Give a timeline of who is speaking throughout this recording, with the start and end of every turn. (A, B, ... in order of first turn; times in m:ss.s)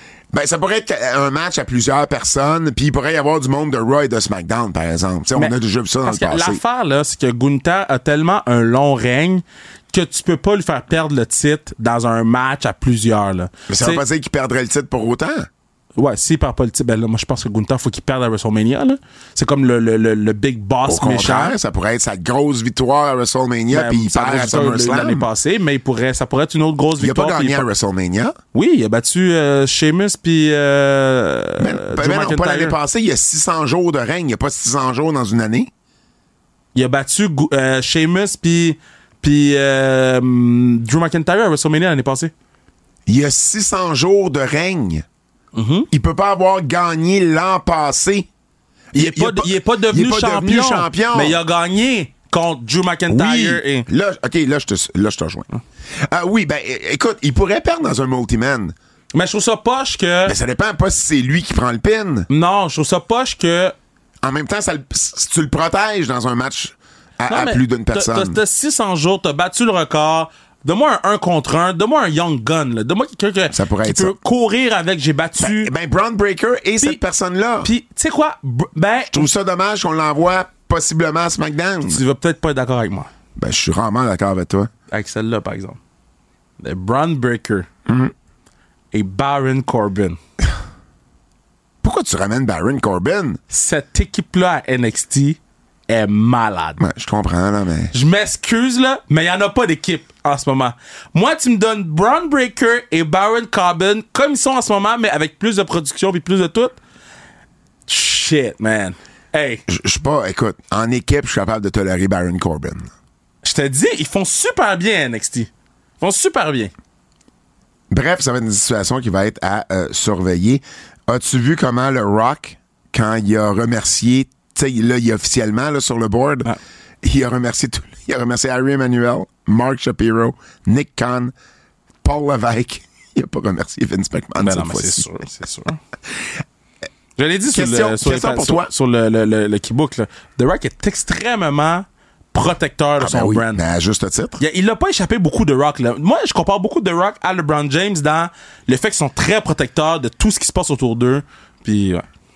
0:00.3-0:06.6 A
0:06.0-0:14.0 B
0:13.7-0:15.5 A
0:16.0-0:21.6 B
0:20.8-0:25.2 A
0:23.7-0:27.6 B
0:27.0-0:28.3 A
0:28.5-0:32.7 B
0:31.6-0:35.7 A
0:36.7-0:42.3 B
0:43.1-0:45.0 A
0:45.5-0:45.9 B
0:45.9-0:48.3 A
0:48.9-0:51.4 A
0:48.9-0:53.9 B
0:53.1-0:55.5 A
0:56.0-0:58.7 A
0:59.1-1:00.4 B
1:00.2-1:02.3 A
1:02.3-1:03.7 B
1:04.2-1:08.4 A
1:07.3-1:15.7 B
1:13.5-1:14.1 A
1:15.4-1:17.7 A
1:17.6-1:19.3 B
1:19.1-1:22.0 A
1:21.8-1:23.1 B
1:23.4-1:24.7 A
1:24.9-1:25.8 B
1:26.6-1:27.7 B
1:27.8-1:28.1 A
1:28.9-1:30.2 B
1:31.8-1:33.4 A
1:33.5-1:35.4 B
1:35.9-1:36.8 B
1:36.8-1:37.9 A
1:37.9-1:46.8 B
1:47.9-1:49.6 B
1:49.7-1:52.9 A
1:53.4-1:56.7 B
1:57.9-2:06.5 A
2:07.0-2:11.3 A
2:12.0-2:15.0 A
2:14.4-2:15.8 B
2:17.2-2:23.6 B
2:17.5-2:18.7 A
2:23.0-2:24.4 A
2:24.4-2:32.0 B